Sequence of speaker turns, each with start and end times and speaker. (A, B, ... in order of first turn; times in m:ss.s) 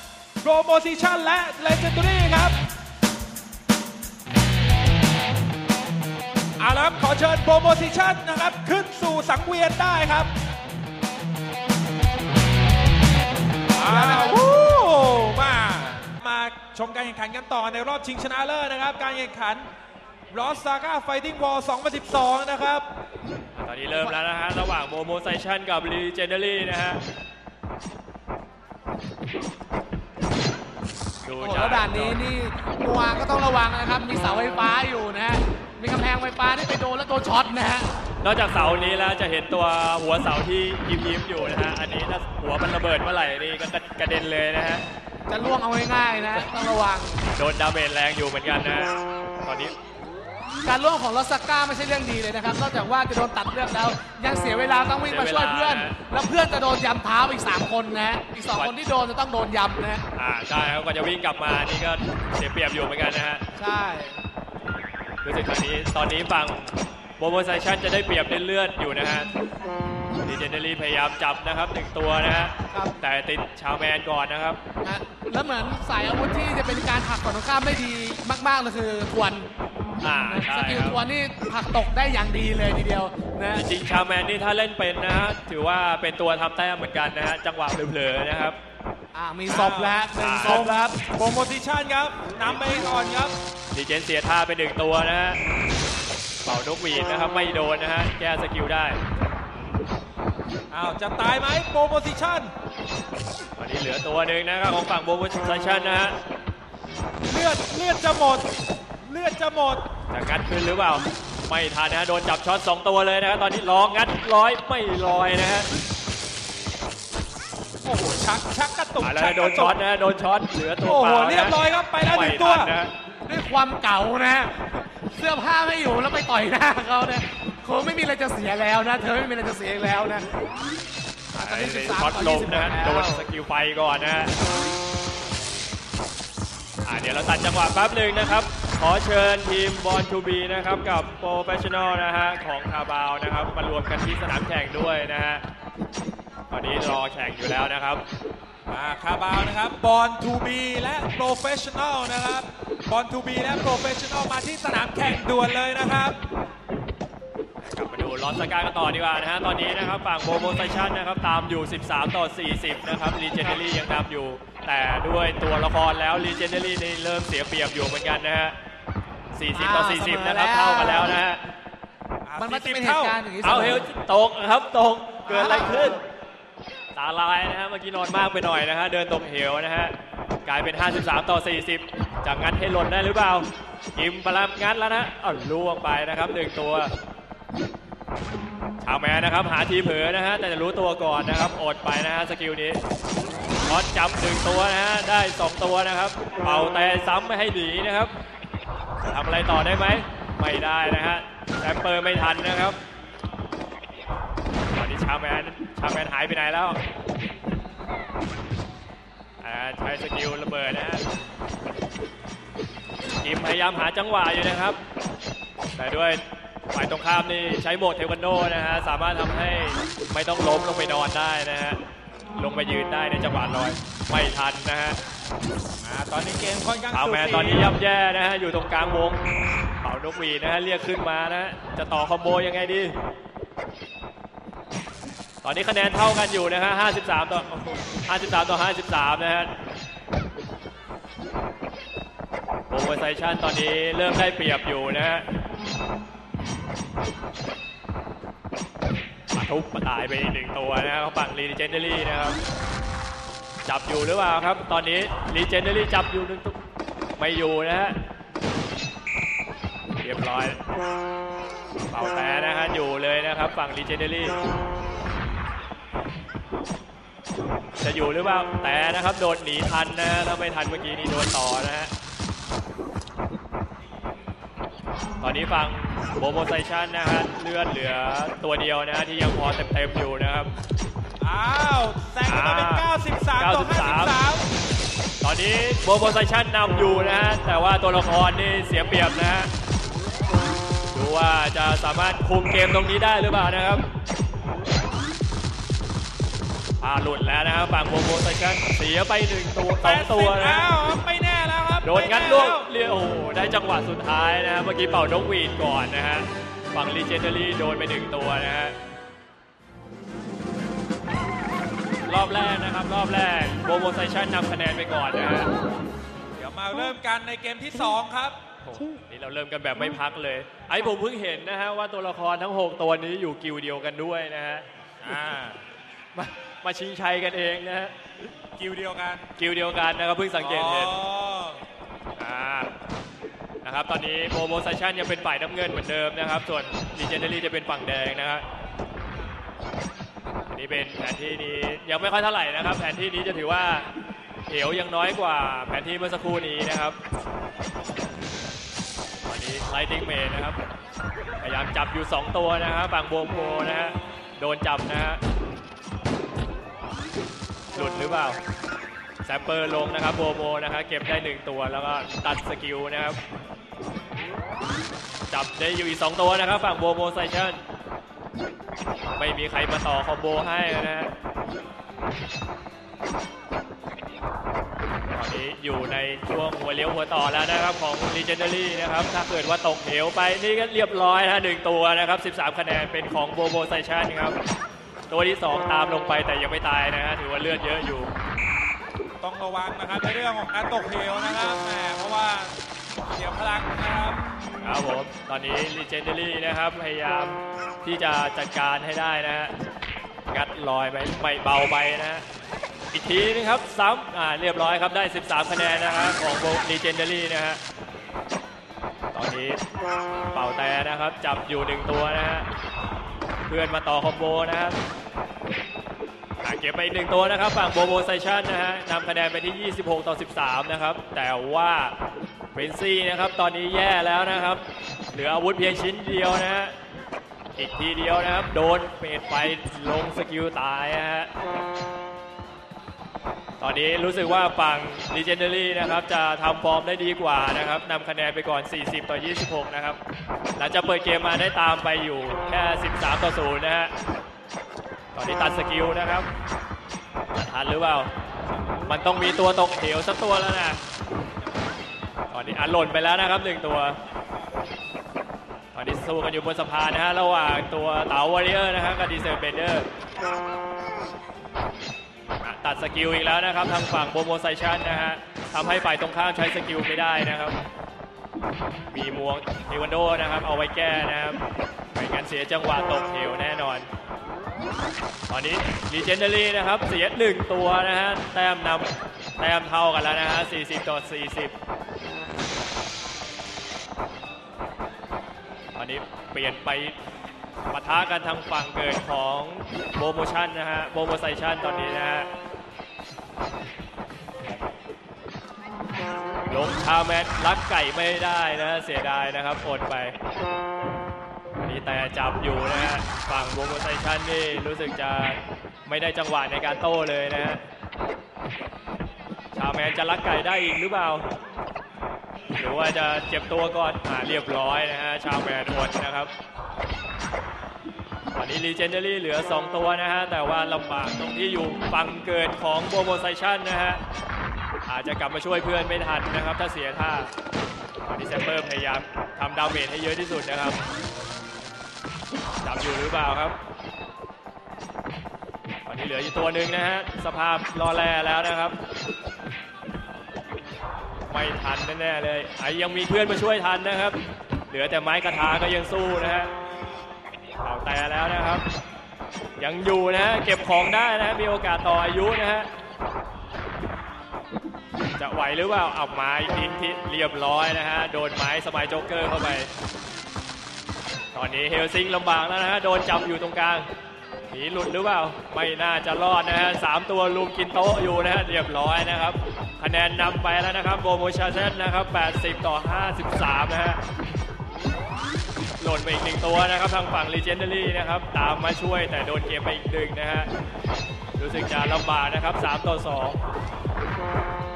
0:00.4-0:02.6 A
0:06.6-0:10.3 A
0:13.7-0:19.7 A
0:13.8-0:14.4 B
0:20.3-0:22.8 A
0:23.6-0:27.0 C
0:31.2-0:32.2 C
0:31.4-0:37.9 B
0:38.2-0:44.8 C
0:45.3-0:47.2 B
0:47.3-0:49.7 C
0:50.6-1:00.0 B
0:55.0-0:56.0 C
1:00.1-1:03.4 C
1:03.5-1:04.2 B
1:05.2-1:09.3 C
1:10.2-1:14.6 C
1:14.8-1:19.5 B
1:20.0-1:21.0 C
1:20.1-1:23.6 B
1:23.5-1:28.6 C
1:29.1-1:31.0 B
1:29.5-1:33.4 A
1:30.2-1:30.7 C
1:33.7-1:35.4 C
1:36.4-1:39.0 C
1:40.7-1:42.5 A
1:43.6-1:46.1 C
1:47.3-1:48.5 A
1:49.0-1:49.8 A
1:50.1-1:55.7 C
1:57.8-1:59.7 A
1:59.0-2:02.9 C
2:00.8-2:02.7 A
2:03.2-2:10.3 B
2:11.3-2:14.3 C
2:11.3-2:13.2 B
2:16.8-2:25.4 C
2:26.5-2:28.0 C
2:28.7-2:36.2 A
2:37.7-2:48.6 C
2:49.3-2:51.4 C
2:49.5-2:51.1 B
2:52.2-2:53.2 A
2:52.4-2:53.8 B
2:53.4-2:56.0 C
2:55.3-2:56.0 B
2:56.9-3:06.9 C
3:08.8-3:12.8 C
3:13.6-3:18.1 C
3:19.0-3:22.8 C
3:24.7-3:26.8 C
3:29.4-3:31.0 C
3:33.2-3:34.8 C
3:35.7-3:41.8 C
3:42.3-3:45.0 C
3:45.8-3:47.7 A
3:46.9-3:49.2 C
3:49.8-3:53.0 C
3:55.4-3:59.5 C
4:02.7-4:05.2 C
4:09.3-4:12.4 C
4:13.6-4:16.6 C
4:17.2-4:18.0 C
4:20.0-4:20.6 C
4:21.9-4:24.4 C
4:27.8-4:31.9 C
4:35.2-4:40.5 C
4:41.2-4:44.5 A
4:42.3-4:42.9 C
4:43.4-4:44.2 C
4:45.2-4:49.5 C
4:50.9-4:53.8 C
4:56.8-5:00.7 C
4:59.8-5:02.7 A
5:01.8-5:08.8 C
5:12.0-5:15.5 C
5:16.4-5:18.4 A
5:18.6-5:24.7 C
5:25.0-5:25.6 A
5:26.1-5:28.3 C
5:28.6-5:29.3 A
5:29.4-5:31.0 C
5:30.4-5:31.6 A
5:32.2-5:32.7 C
5:33.6-5:38.4 C
5:40.5-5:43.9 C
5:44.5-5:47.0 C
5:49.2-5:50.6 C
5:51.4-5:55.2 C
5:57.7-5:58.4 C
5:59.2-6:03.2 C
6:05.3-6:07.6 C
6:09.2-6:11.1 C
6:15.1-6:24.4 C
6:25.1-6:28.1 C
6:29.2-6:34.4 A
6:34.6-6:39.5 C
6:40.3-6:42.2 C
6:42.9-6:47.6 C
6:49.1-6:49.6 C
6:50.3-6:52.5 C
6:53.5-6:54.8 C
6:56.4-7:01.9 C
7:02.5-7:06.7 C
7:07.5-7:11.3 C
7:13.6-7:20.0 C
7:20.6-7:23.9 C
7:25.1-7:26.3 C
7:27.3-7:28.1 C
7:28.8-7:30.8 C
7:32.3-7:34.0 C
7:35.7-7:39.9 C
7:42.4-7:47.6 C
7:48.9-7:51.4 C
7:51.9-7:53.9 C
7:55.3-8:01.5 C
8:05.7-8:07.0 C
8:07.7-8:12.3 C
8:16.5-8:20.1 C
8:21.6-8:27.6 C
8:29.5-8:31.2 C
8:32.6-8:36.3 C
8:38.3-8:44.0 C
8:44.8-8:47.3 C
8:48.0-8:50.8 C
8:52.6-8:53.6 C
8:55.8-8:58.8 C
9:01.3-9:04.2 C
9:04.7-9:06.5 C
9:07.6-9:08.6 C
9:09.6-9:12.7 C
9:15.2-9:19.7 C
9:21.3-9:23.9 C
9:24.5-9:34.0 C
9:35.8-9:40.5 C
9:41.4-9:43.4 C